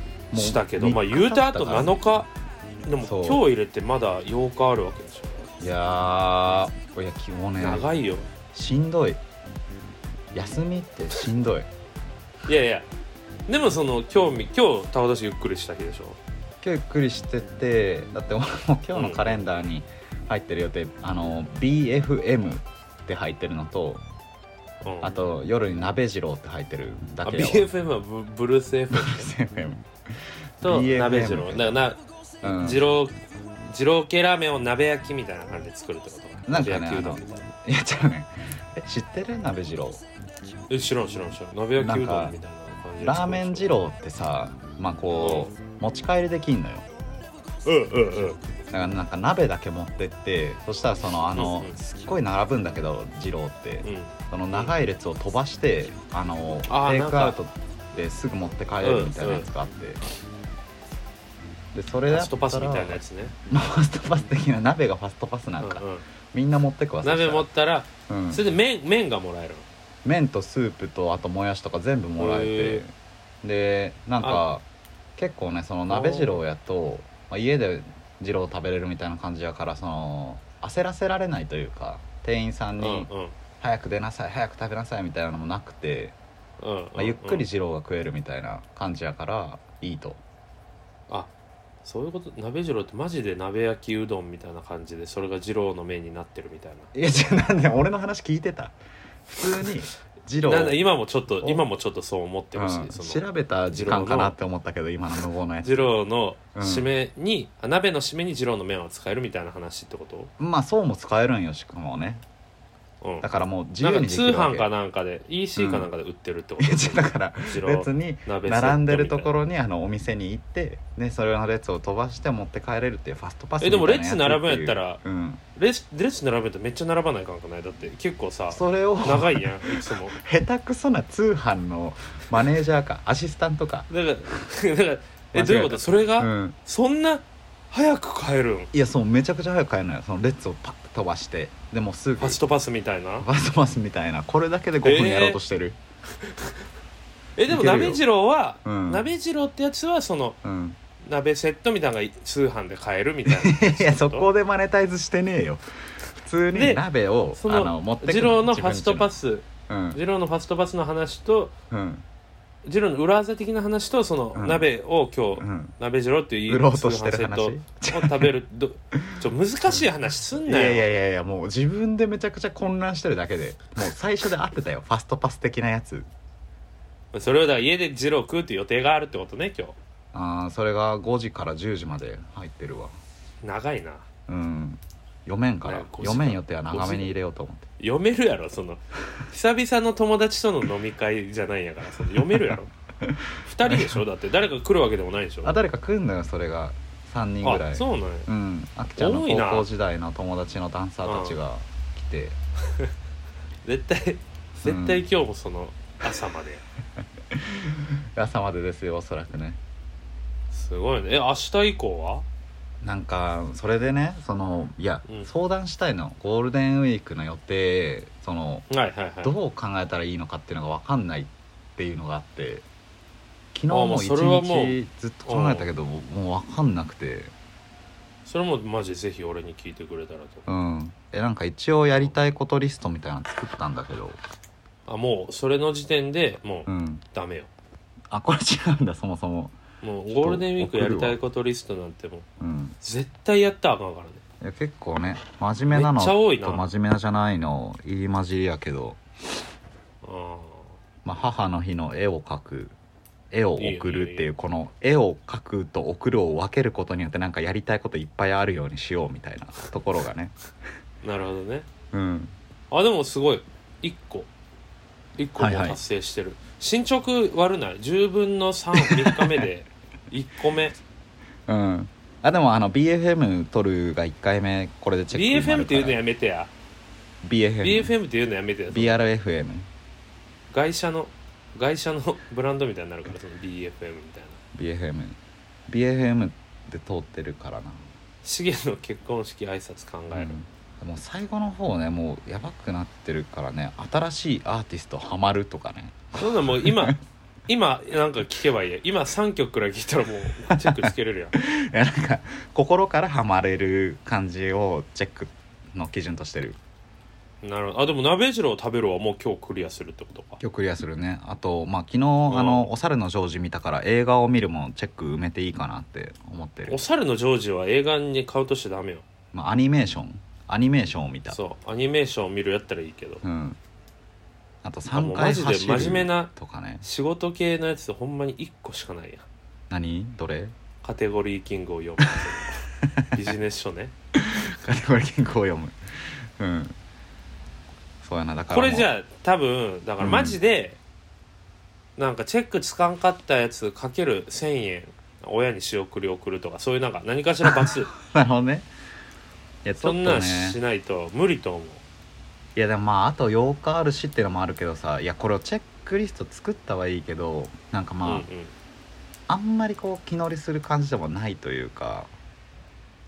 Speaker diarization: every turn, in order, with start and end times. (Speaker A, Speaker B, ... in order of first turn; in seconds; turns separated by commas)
Speaker A: 0.3-2.0, Speaker B: 0.3-2.3, Speaker B: 2.9-5.5, Speaker A: 3.0-3.4, Speaker A: 5.6-7.9, Speaker B: 7.6-8.3, Speaker A: 8.5-9.2, Speaker A: 10.3-11.7, Speaker B: 12.5-12.9, Speaker B: 13.5-16.2, Speaker A: 16.6-24.0, Speaker B: 18.9-19.4, Speaker B: 24.8-25.1, Speaker A: 25.0-27.7, Speaker B: 27.2-29.3, Speaker A: 28.9-29.9, Speaker A: 30.6-31.7, Speaker B: 30.6-32.0, Speaker A: 32.4-32.8, Speaker B: 32.6-37.5, Speaker A: 36.5-40.0, Speaker B: 40.7-43.7, Speaker A: 41.8-42.4, Speaker A: 43.0-46.9, Speaker B: 45.1-45.5, Speaker B: 47.6-48.4, Speaker A: 48.7-60.0, Speaker B: 51.4-51.8, Speaker B: 53.8-54.7, Speaker B: 56.7-57.4, Speaker B: 58.8-59.5, Speaker A: 61.7-67.5, Speaker B: 62.1-63.4, Speaker B: 65.6-66.0, Speaker B: 67.0-69.7, Speaker A: 68.1-68.4, Speaker A: 70.0-72.9, Speaker B: 72.2-72.8, Speaker A: 73.4-74.6, Speaker A: 75.2-83.1, Speaker B: 75.9-76.4, Speaker B: 82.8-83.4, Speaker A: 83.6-86.1, Speaker B: 86.6-87.4, Speaker A: 87.0-90.2, Speaker B: 91.8-96.9, Speaker A: 96.9-98.7, Speaker A: 99.3-100.8, Speaker B: 100.4-104.3, Speaker A: 102.5-105.9, Speaker B: 105.6-110.3, Speaker A: 106.5-106.9, Speaker A: 110.4-112.2, Speaker B: 113.0-119.3, Speaker A: 113.2-114.7, Speaker A: 115.6-115.9, Speaker A: 116.6-125.4, Speaker B: 123.6-125.0, Speaker B: 125.5-130.2, Speaker A: 128.5-133.9, Speaker B: 133.9-138.7, Speaker A: 135.3-136.6, Speaker A: 138.7-142.4, Speaker B: 142.2-143.3, Speaker A: 143.2-145.8, Speaker B: 144.8-145.4, Speaker B: 147.4-150.4, Speaker A: 147.5-148.0, Speaker A: 148.6-149.1, Speaker A: 150.4-150.8, Speaker B: 151.0-154.3, Speaker A: 153.3-155.6, Speaker A: 156.2-159.1, Speaker B: 156.5-156.8, Speaker B: 157.3-161.5, Speaker A: 159.7-160.0, Speaker A: 161.7-162.0, Speaker B: 162.6-170.9, Speaker A: 164.3-164.6, Speaker A: 165.4-165.7, Speaker A: 166.5-168.3, Speaker A: 168.9-169.8, Speaker A: 170.4-176.1, Speaker B: 177.1-179.8, Speaker A: 180.1-182.9, Speaker B: 183.4-184.0, Speaker A: 184.3-187.7, Speaker B: 185.6-187.1, Speaker B: 187.8-192.7, Speaker A: 192.3-194.0, Speaker B: 193.4-195.6, Speaker A: 195.4-202.4, Speaker B: 197.4-198.3, Speaker B: 199.0-199.7, Speaker B: 201.0-201.4, Speaker B: 203.6-206.6, Speaker A: 204.6-205.0, Speaker A: 207.3-209.6, Speaker B: 210.5-212.2, Speaker A: 212.8-218.7, Speaker B: 218.7-219.3, Speaker A: 219.2-222.6, Speaker A: 223.5-227.3, Speaker B: 223.7-225.7, Speaker B: 228.2-230.5, Speaker A: 230.5-234.2, Speaker B: 234.9-237.5, Speaker A: 236.7-237.0, Speaker A: 238.1-239.6, Speaker B: 239.8-242.2, Speaker A: 240.1-241.2, Speaker A: 242.4-242.8, Speaker B: 242.8-244.2, Speaker A: 244.4-249.0, Speaker B: 245.7-246.7, Speaker B: 250.0-250.7, Speaker A: 251.0-252.7, Speaker A: 253.3-260.3, Speaker B: 253.6-254.3, Speaker B: 261.0-261.7, Speaker A: 261.9-262.3, Speaker B: 262.7-264.3, Speaker B: 265.2-270.7, Speaker A: 265.4-265.8, Speaker A: 268.8-269.2, Speaker A: 271.5-276.0, Speaker B: 275.1-276.5, Speaker A: 277.2-277.9, Speaker B: 277.6-279.0, Speaker A: 278.7-279.7, Speaker B: 280.5-284.4, Speaker A: 284.5-285.2, Speaker A: 285.7-287.8, Speaker B: 288.2-290.4, Speaker A: 290.1-296.9, Speaker B: 296.1-297.0, Speaker B: 297.5-301.3, Speaker A: 300.6-306.6, Speaker B: 307.4-310.4, Speaker A: 310.4-316.8, Speaker B: 312.3-312.7, Speaker B: 316.7-319.0, Speaker A: 319.3-321.4, Speaker B: 321.3-323.2, Speaker A: 323.2-323.6, Speaker A: 324.6-326.8, Speaker B: 324.9-329.2, Speaker A: 329.7-330.5, Speaker B: 330.8-333.9, Speaker A: 332.8-333.2, Speaker A: 334.1-335.7, Speaker A: 336.4-336.8, Speaker A: 338.0-338.9, Speaker B: 338.5-340.8, Speaker A: 340.0-340.4, Speaker B: 342.0-347.9, Speaker A: 347.4-348.7, Speaker A: 349.6-350.6, Speaker B: 349.8-351.8, Speaker A: 352.6-358.3, Speaker B: 358.0-358.5, Speaker A: 359.3-362.1